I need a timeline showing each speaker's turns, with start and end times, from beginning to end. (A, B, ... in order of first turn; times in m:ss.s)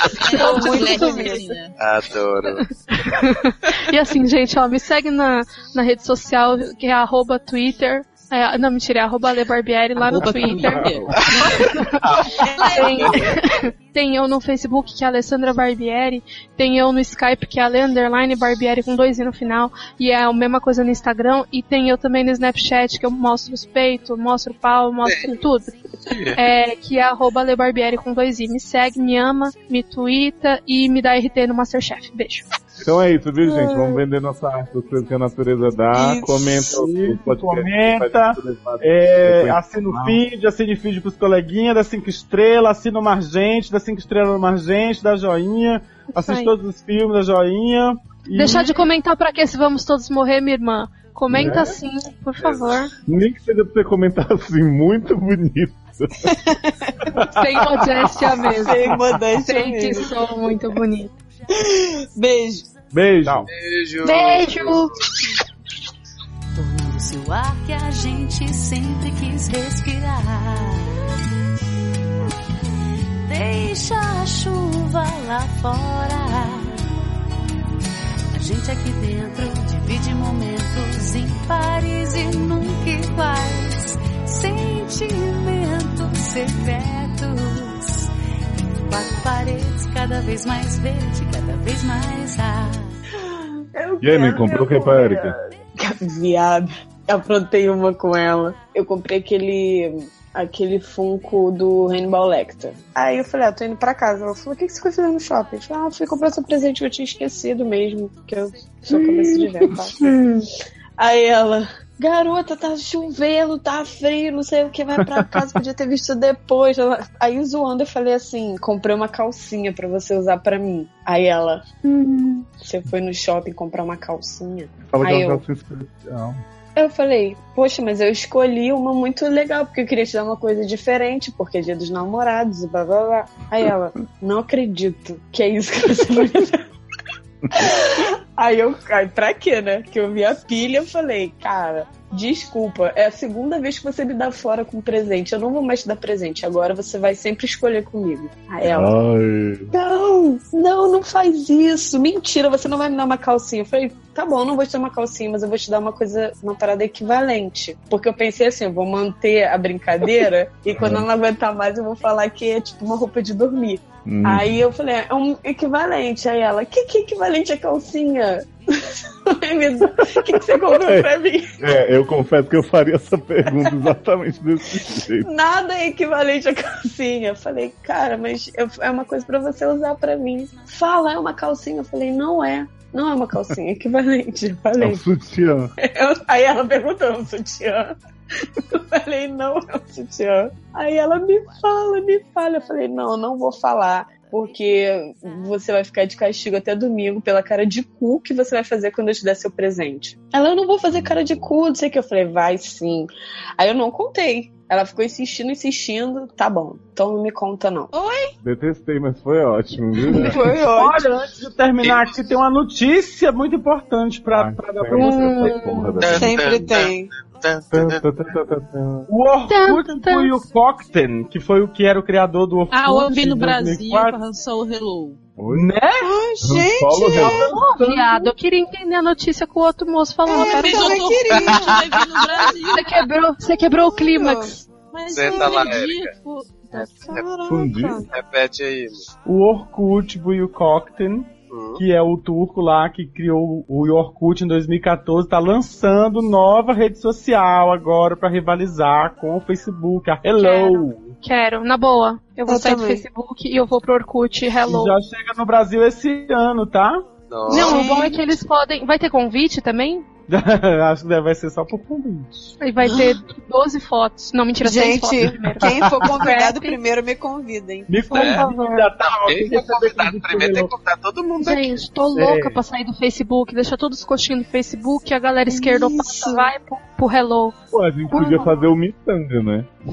0:00.2-0:01.8 A
0:00.2-0:01.4 B
0:00.2-0:01.6 C
0:01.8-0:02.6 D
0:02.6-0:12.0 B
0:10.0-0:13.3 A
0:10.3-0:11.2 E
0:11.3-0:13.4 D
0:12.4-0:13.1 C
0:12.6-0:25.7 B
0:26.1-0:26.4 D
0:26.4-0:32.5 B
0:32.8-0:40.2 E
0:33.4-0:34.0 C
0:35.9-0:36.8 C
0:36.7-0:48.8 F
0:46.2-0:46.5 B
0:48.4-0:52.9 B
0:51.3-0:51.8 E
0:53.1-0:56.3 E
0:56.3-0:57.1 C
0:57.3-1:01.2 B
0:58.4-1:00.2 C
1:01.5-1:02.7 C
1:02.9-1:03.5 F
1:03.5-1:04.8 D
1:04.0-1:04.9 B
1:06.6-1:11.0 G
1:13.3-1:16.8 G
1:18.3-1:28.1 G
1:28.9-1:33.0 G
1:33.3-1:50.5 C
1:34.0-1:35.4 E
1:48.9-1:49.4 E
1:51.0-2:01.7 C
2:01.9-2:02.2 B
2:02.5-2:05.4 C
2:04.9-2:06.4 E
2:06.8-2:16.7 C
2:17.5-2:17.7 E
2:17.6-2:28.9 C
2:28.6-2:29.7 E
2:29.7-2:51.6 C
2:40.7-2:41.1 E
2:44.0-2:44.6 E
2:50.6-2:55.3 E
2:55.2-3:05.0 C
3:04.8-3:05.7 E
3:05.8-3:27.9 C
3:27.9-3:28.4 A
3:28.4-3:30.4 E
3:30.1-3:31.1 C
3:30.7-3:35.6 F
3:31.8-3:32.2 D
3:34.3-3:36.7 E
3:34.9-3:35.9 B
3:35.1-3:37.1 C
3:36.0-3:38.0 D
3:37.7-3:39.1 E
3:39.1-3:44.2 F
3:39.5-3:40.3 B
3:42.7-3:45.2 A
3:45.4-3:45.7 E
3:45.5-3:46.2 F
3:46.0-3:47.6 C
3:46.4-3:47.5 E
3:47.2-3:51.1 B
3:47.5-3:48.3 F
3:50.3-3:52.5 C
3:50.3-3:52.9 A
3:51.4-3:51.8 D
3:52.7-3:54.6 B
3:53.9-3:54.6 C
3:54.9-3:57.2 A
3:55.1-3:56.1 D
3:56.7-3:58.1 C
3:56.8-3:57.3 D
3:57.5-3:58.0 E
3:58.1-3:59.0 D
3:59.3-4:11.1 F
4:01.5-4:01.8 D
4:10.4-4:15.0 B
4:12.5-4:13.0 C
4:14.7-4:17.1 F
4:17.3-4:17.9 D
4:17.5-4:18.3 C
4:17.5-4:20.1 B
4:20.3-4:22.6 F
4:22.6-4:26.8 B
4:22.9-4:23.2 C
4:24.6-4:28.9 C
4:25.8-4:26.2 F
4:27.9-4:30.7 F
4:28.1-4:28.5 D
4:29.0-4:31.8 D
4:31.4-4:37.6 B
4:32.2-4:32.6 F
4:35.5-4:36.5 C
4:37.7-4:39.7 E
4:38.1-4:38.5 B
4:38.1-4:38.5 C